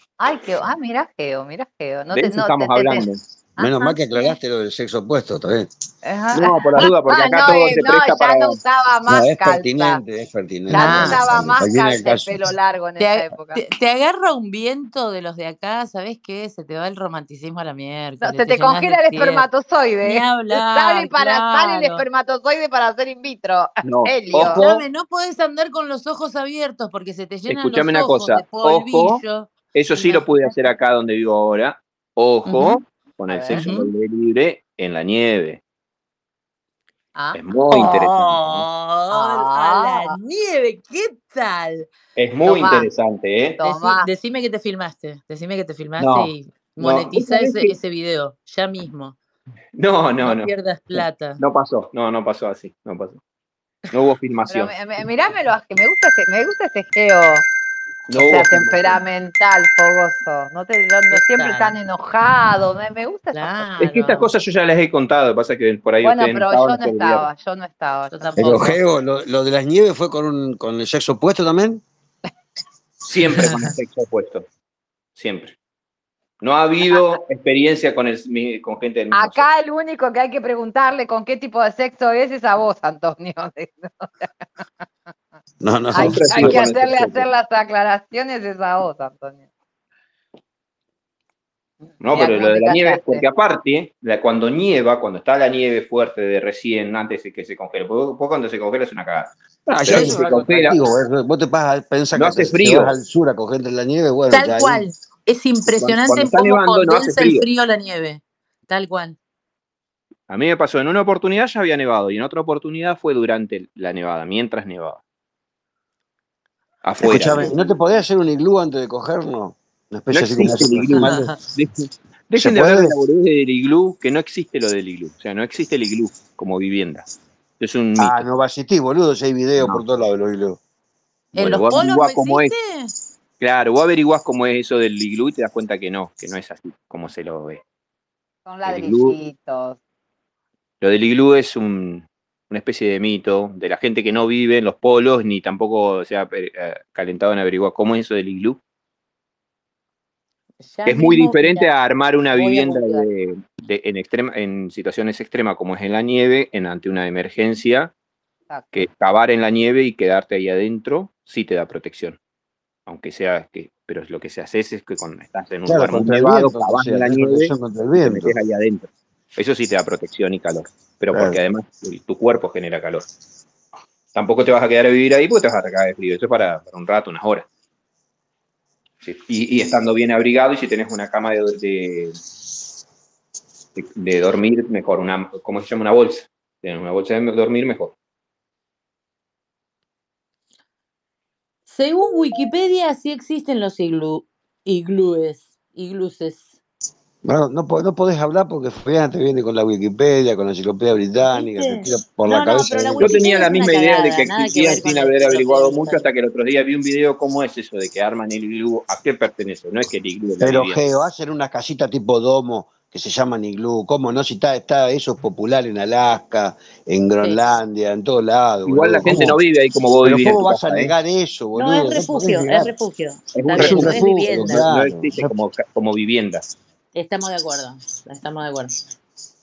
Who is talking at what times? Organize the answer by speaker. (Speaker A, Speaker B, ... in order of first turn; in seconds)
Speaker A: 0.2-4.3, 6.0-10.0, 10.7-13.6, 18.2-24.6, 32.5-33.9, 39.1-40.1, 42.5-42.9, 43.6-44.1, 54.5-57.5, 58.1-63.5, 66.0-68.7, 79.1-84.3, 85.9-89.4, 92.1-93.2, 138.5-139.8
Speaker B: 2.1-3.2, 6.3-8.6, 23.8-24.8, 27.5-29.2, 29.7-35.6, 37.3-38.7, 42.2-43.6, 46.0-47.8, 49.8-53.2, 53.9-54.7, 58.1-59.0, 63.8-67.3, 73.0-74.5, 75.2-75.6, 76.4-79.5, 86.0-87.0, 92.0-100.8, 102.2-103.0, 105.8-107.5, 110.3-115.0, 116.8-117.6, 120.1-127.1, 127.6-128.3, 129.6-129.8, 131.3-132.5, 133.4-137.6, 138.7-139.2, 140.8-148.6, 150.9-157.9, 158.7-162.2, 162.9-173.1, 174.1-177.5, 179.0-182.2, 183.8-188.0, 203.0-210.8, 218.7-220.9, 223.3-226.5
Speaker C: 3.6-5.7, 9.1-12.4, 68.4-71.8, 85.6-87.3, 99.7-104.8, 117.0-121.3, 122.3-123.0, 128.0-130.6, 165.7-168.3, 171.1-171.4, 197.2-203.2, 210.4-219.4, 220.0-222.7, 223.5-225.3
Speaker D: 10.7-11.4, 13.0-19.5, 20.0-22.1, 24.5-30.2, 37.7-41.9, 43.6-49.2, 50.2-51.4, 61.1-61.8, 63.3-64.3, 68.1-68.8, 73.4-73.7, 99.9-100.2, 104.3-109.2, 121.0-121.4, 131.3-132.9, 150.6-151.7, 152.3-153.1, 191.7-196.6, 201.3-206.1, 221.6-224.7, 226.9-228.7